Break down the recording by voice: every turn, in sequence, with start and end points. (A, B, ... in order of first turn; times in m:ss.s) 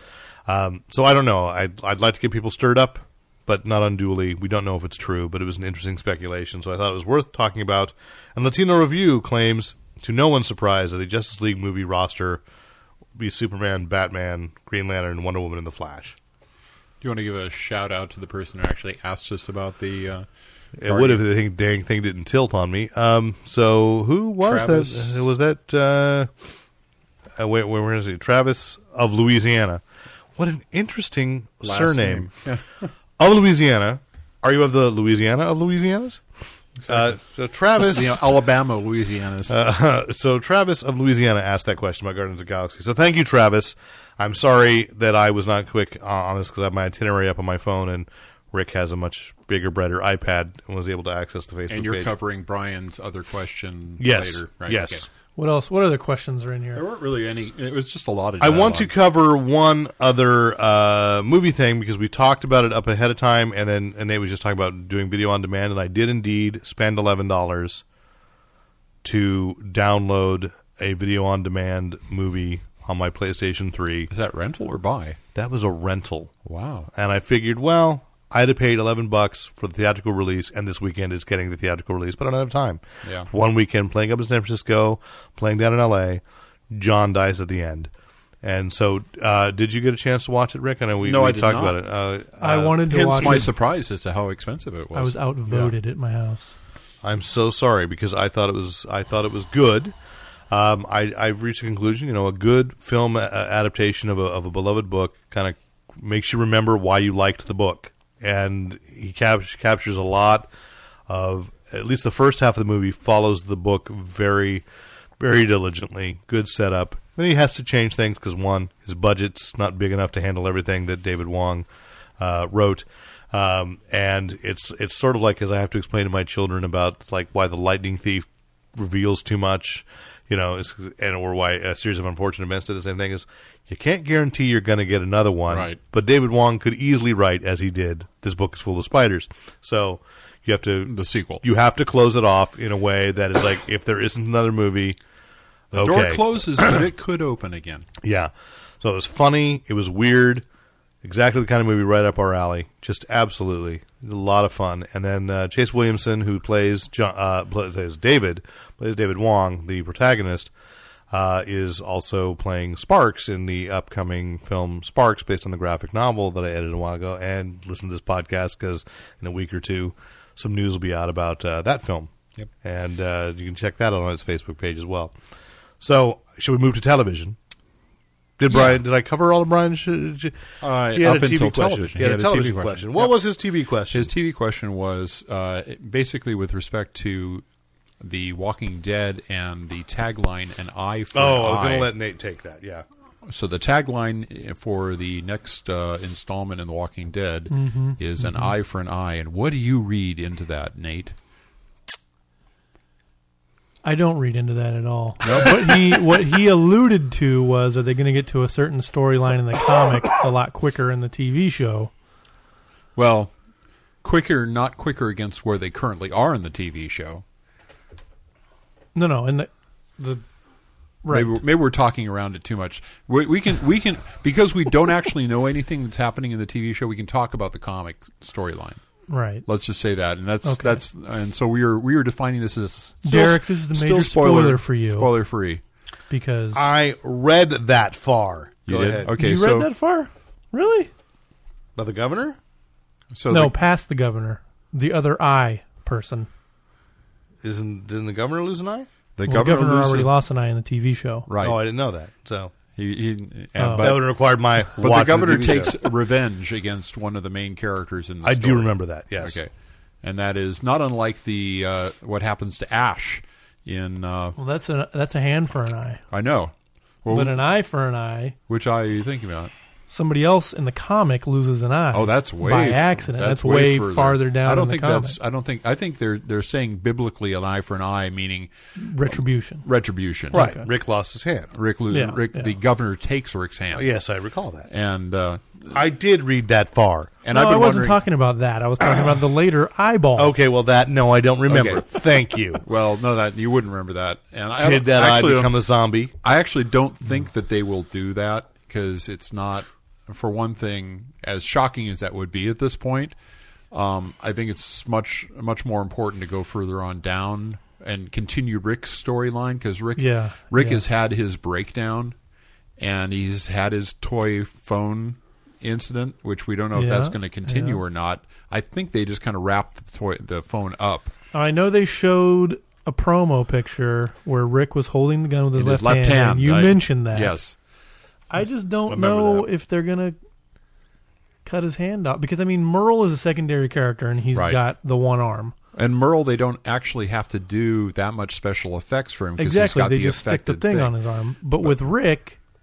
0:00.5-0:12.4 A
0:13.2-0:16.2 A
0:17.0-0:20.3 B
0:20.8-0:26.3 A
0:20.8-0:21.2 B
0:24.4-0:25.3 B
0:27.4-0:29.8 A
0:30.4-0:32.3 A
0:31.6-0:32.9 B
0:33.2-0:36.2 A
0:36.8-0:37.2 B
0:36.8-0:38.2 A
0:37.8-0:39.6 B
0:39.5-0:52.1 A
0:51.7-0:55.1 B
0:54.0-0:55.1 A
0:55.4-0:56.8 C
0:56.7-0:58.9 B
0:58.4-1:07.8 A
1:09.0-1:14.1 A
1:14.1-1:15.2 B
1:15.4-1:16.3 A
1:16.4-1:16.9 B
1:16.9-1:27.9 A
1:23.0-1:23.3 B
1:28.4-1:33.5 A
1:31.0-1:31.8 B
1:32.4-1:33.5 C
1:32.9-1:35.2 B
1:34.9-1:36.5 C
1:37.0-1:39.9 A
1:40.5-1:50.5 A
1:51.1-1:54.6 A
1:55.2-2:01.7 A
2:02.2-2:25.0 A
2:15.5-2:15.8 B
2:20.9-2:21.4 B
2:25.7-2:26.8 A
2:25.7-2:27.9 B
2:28.0-2:30.4 A
2:31.0-2:40.5 A
2:41.1-2:52.1 A
2:52.6-2:55.1 A
2:55.8-2:57.4 A
2:58.4-3:04.1 A
2:58.5-2:58.8 B
3:00.6-3:03.1 B
3:03.9-3:07.4 B
3:08.0-3:11.9 B
3:11.1-3:12.8 A
3:13.3-3:21.2 B
3:17.5-3:18.5 C
3:23.8-3:31.9 C
3:25.2-3:26.2 B
3:33.0-3:33.3 B
3:34.0-3:37.2 B
3:39.0-3:40.2 C
3:41.0-3:41.4 C
3:41.1-3:48.8 B
3:49.1-3:49.4 C
3:49.4-3:55.6 B
3:50.4-3:50.8 C
3:53.0-3:55.1 C
3:56.1-3:56.7 C
3:56.5-3:59.1 A
3:58.7-3:59.7 B
3:59.2-4:00.9 C
4:01.8-4:02.4 A
4:03.1-4:03.6 B
4:03.3-4:06.3 C
4:07.4-4:08.9 A
4:09.2-4:10.1 B
4:09.3-4:11.3 C
4:11.3-4:11.6 B
4:11.4-4:12.5 A
4:12.8-4:14.1 B
4:13.6-4:14.0 C
4:13.8-4:15.8 A
4:14.8-4:19.5 B
4:18.2-4:19.4 A
4:20.0-4:24.4 B
4:24.4-4:26.0 C
4:26.1-4:26.5 B
4:27.0-4:27.4 B
4:27.1-4:28.4 C
4:28.5-4:29.5 B
4:29.9-4:35.2 C
4:31.9-4:38.5 B
4:38.8-4:39.7 C
4:39.1-4:40.5 B
4:40.3-4:40.7 C
4:40.3-4:41.5 A
4:41.5-4:43.9 B
4:41.9-4:42.5 C
4:43.7-4:44.7 A
4:44.7-4:45.8 B
4:45.7-4:47.1 A
4:47.2-4:48.0 B
4:47.3-4:50.3 C
4:50.2-4:52.6 A
4:51.5-4:51.9 B
4:52.6-4:55.5 B
4:54.6-4:56.1 A
4:56.2-5:03.2 B
5:03.7-5:12.2 B
5:10.0-5:10.8 C
5:12.8-5:21.1 B
5:16.8-5:17.8 C
5:21.3-5:27.4 C
5:25.5-5:27.6 B
5:28.3-5:30.2 C
5:28.9-5:29.5 A
5:31.4-5:35.5 C
5:34.3-5:34.6 B
5:35.8-5:40.9 B
5:39.4-5:42.4 C